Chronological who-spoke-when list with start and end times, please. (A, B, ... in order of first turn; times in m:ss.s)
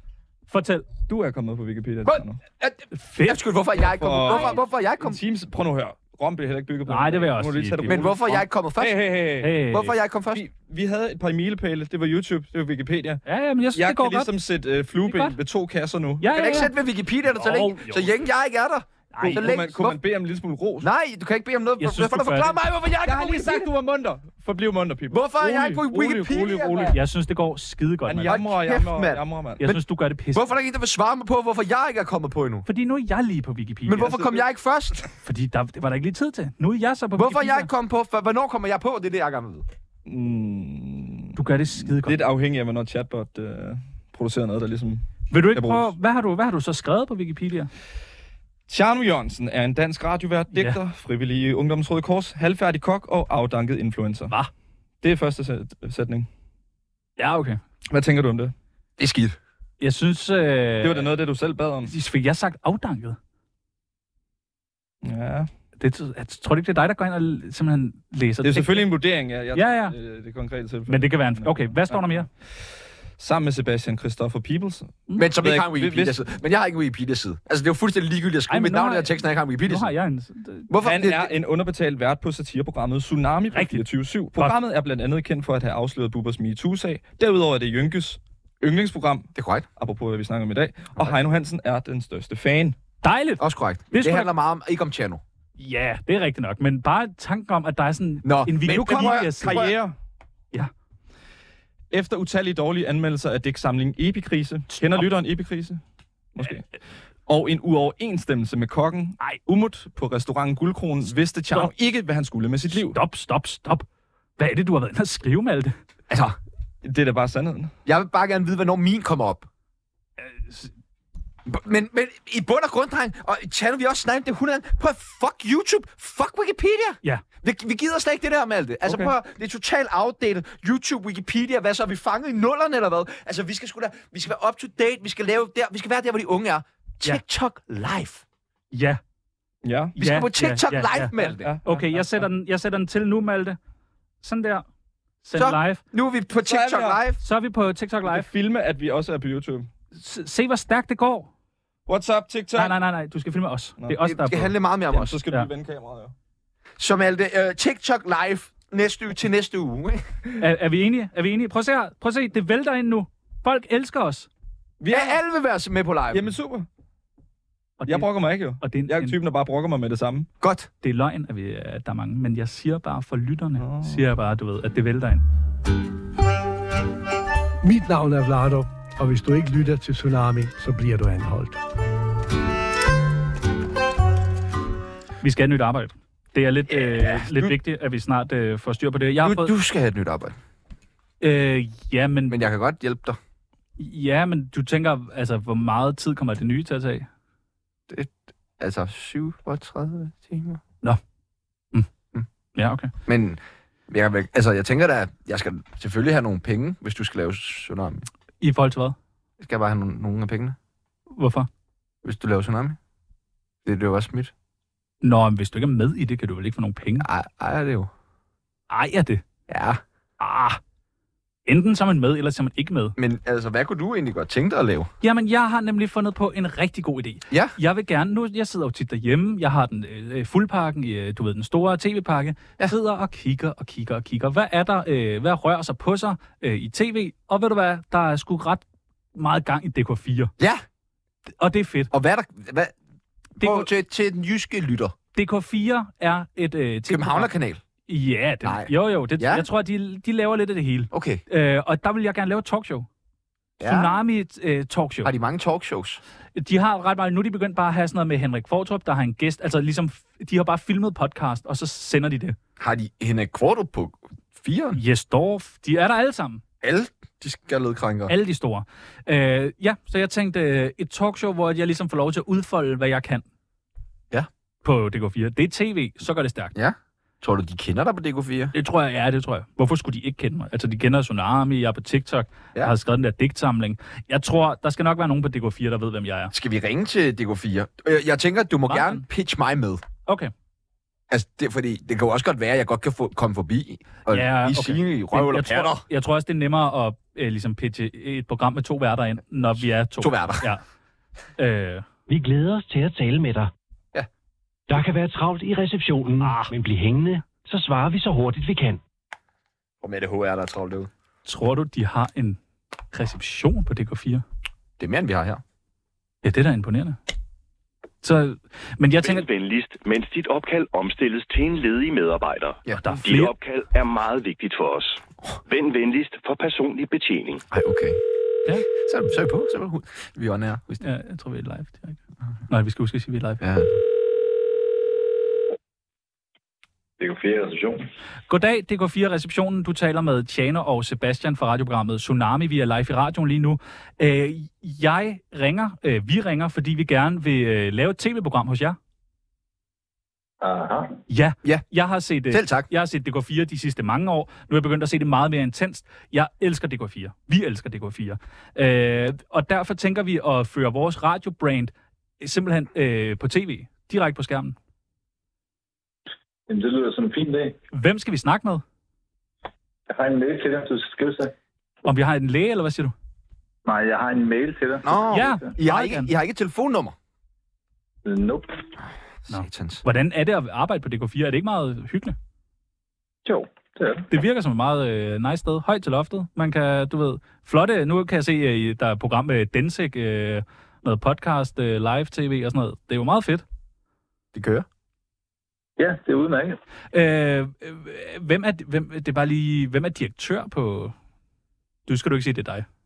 0:00.5-0:00.9 A
0:01.0-0:02.4 B
0:02.1-0:05.2 C
0:02.9-0:03.4 A
0:03.7-0:09.6 B
0:04.3-0:04.6 A
0:06.9-0:08.1 A
0:07.9-0:10.4 C
0:09.4-0:10.0 A
0:10.3-0:13.2 B
0:13.3-0:14.3 A
0:13.7-0:16.6 B
0:15.0-0:15.4 A
0:16.2-0:16.7 A
0:16.3-0:20.0 C
0:17.4-0:18.1 A
0:19.1-0:19.5 A
0:19.2-0:20.9 B
0:20.8-0:23.7 C
0:21.8-0:22.6 A
0:23.0-0:27.0 B
0:25.1-0:27.0 C
0:26.9-0:28.4 A
0:28.1-0:29.6 B
0:28.3-0:29.8 C
0:29.6-0:30.5 A
0:30.3-0:32.7 C
0:32.7-0:34.2 A
0:33.9-0:35.0 C
0:34.0-0:34.5 B
0:35.2-0:37.7 A
0:37.2-0:39.7 C
0:40.0-0:46.0 B
0:41.4-0:42.2 A
0:45.3-0:47.7 A
0:48.7-0:54.4 B
0:50.5-0:50.8 A
0:55.0-0:56.3 B
0:57.2-0:57.6 A
0:57.9-0:58.5 B
0:59.0-0:59.4 C
0:59.8-1:01.1 A
1:00.8-1:01.9 B
1:01.8-1:03.2 A
1:05.0-1:05.5 B
1:05.8-1:08.9 A
1:08.4-1:12.3 B
1:09.5-1:10.0 A
1:10.9-1:12.3 A
1:13.2-1:16.2 B
1:15.2-1:19.9 C
1:18.5-1:20.7 A
1:20.7-1:21.3 C
1:20.8-1:32.8 B
1:23.5-1:23.8 A
1:29.4-1:29.7 C
1:33.0-1:34.3 A
1:33.4-1:35.2 C
1:35.6-1:39.7 A
1:38.2-1:39.7 C
1:38.9-1:40.0 B
1:41.9-1:45.8 B
1:44.7-1:45.1 A
1:46.4-1:46.7 B
1:47.3-1:53.0 B
1:52.7-1:53.8 A
1:54.4-1:55.8 A
1:56.1-1:56.4 C
1:56.8-1:57.7 B
1:57.9-1:59.5 C
2:00.2-2:00.7 A
2:01.5-2:18.2 C
2:18.7-2:19.0 A
2:19.6-2:20.0 B
2:20.0-2:21.5 C
2:20.0-2:23.6 A
2:21.2-2:22.3 B
2:24.2-2:24.7 A
2:25.2-2:25.8 A
2:25.4-2:27.2 C
2:26.4-2:27.0 B
2:27.2-2:28.3 A
2:28.0-2:29.7 B
2:30.0-2:31.3 A
2:31.9-2:32.8 B
2:32.6-2:34.5 A
2:33.8-2:36.1 B
2:34.0-2:35.2 C
2:36.8-2:40.0 C
2:40.4-2:44.3 A
2:44.8-2:45.2 B
2:44.9-2:46.3 C
2:46.1-2:46.7 B
2:47.8-2:49.2 A
2:47.9-2:50.3 B
2:50.4-2:50.7 C
2:50.8-2:55.2 A
2:53.6-2:54.0 B
2:57.6-3:01.6 D
3:05.2-3:09.5 A
3:06.7-3:07.5 C
3:09.2-3:10.4 C
3:11.2-3:12.4 A
3:12.3-3:13.2 C
3:13.8-3:17.1 A
3:17.9-3:20.6 C
3:22.6-3:22.9 A
3:23.1-3:28.1 C
3:28.4-3:29.0 A
3:29.4-3:30.6 C
3:31.2-3:31.5 A
3:32.0-3:32.8 C
3:33.6-3:34.3 C
3:35.0-3:37.1 A
3:37.0-3:37.9 C
3:38.7-3:39.2 A
3:39.5-3:39.8 C
3:40.2-3:40.6 A
3:41.5-3:43.0 A
3:43.0-3:44.9 C
3:45.0-3:58.6 A
3:59.2-4:00.3 A
4:01.4-4:01.9 A
4:01.9-4:02.7 C
4:03.4-4:05.0 C
4:03.4-4:03.7 A
4:05.2-4:07.3 A
4:06.9-4:07.6 C
4:07.9-4:12.9 A
4:08.4-4:09.5 C
4:10.9-4:11.2 C
4:13.6-4:13.9 C
4:13.6-4:15.1 A
4:15.0-4:16.0 C
4:16.4-4:22.4 A
4:22.6-4:24.8 C
4:24.8-4:26.4 A
4:26.6-4:28.1 C
4:28.1-4:33.2 A
4:34.6-4:36.5 A
4:36.6-4:38.5 C
4:38.5-4:46.3 A
4:46.3-4:49.8 C
4:48.7-4:49.0 A
4:50.1-4:50.3 A
4:51.1-4:55.8 C
4:54.1-5:00.6 A
5:00.0-5:00.5 C
5:01.4-5:01.8 A
5:02.1-5:03.5 E
5:04.7-5:08.8 E
5:06.2-5:06.5 A
5:09.8-5:10.9 C
5:11.2-5:12.4 A
5:12.9-5:14.2 A
5:14.8-5:15.4 C
5:16.2-5:17.0 A
5:18.0-5:19.3 A
5:19.0-5:27.4 F
5:22.8-5:23.3 A
5:27.5-5:28.0 C
5:28.8-5:30.8 C
5:30.8-5:33.4 A
5:33.4-5:33.7 C
5:37.0-5:37.9 G
5:38.3-5:48.8 A
5:50.4-5:51.0 G
5:51.1-6:04.6 A
5:52.3-5:52.7 C
6:06.5-6:07.6 G
6:07.7-6:08.6 A
6:09.9-6:11.3 G
6:11.8-6:13.0 A
6:13.7-6:15.5 G
6:14.8-6:16.9 C
6:15.1-6:16.1 A
6:18.0-6:18.6 G
6:19.2-6:19.8 C
6:19.3-6:22.2 A
6:23.2-6:24.1 G
6:24.1-6:33.4 A
6:34.4-6:34.7 C
6:35.8-6:36.6 G
6:36.9-6:40.9 A
6:41.9-6:42.7 A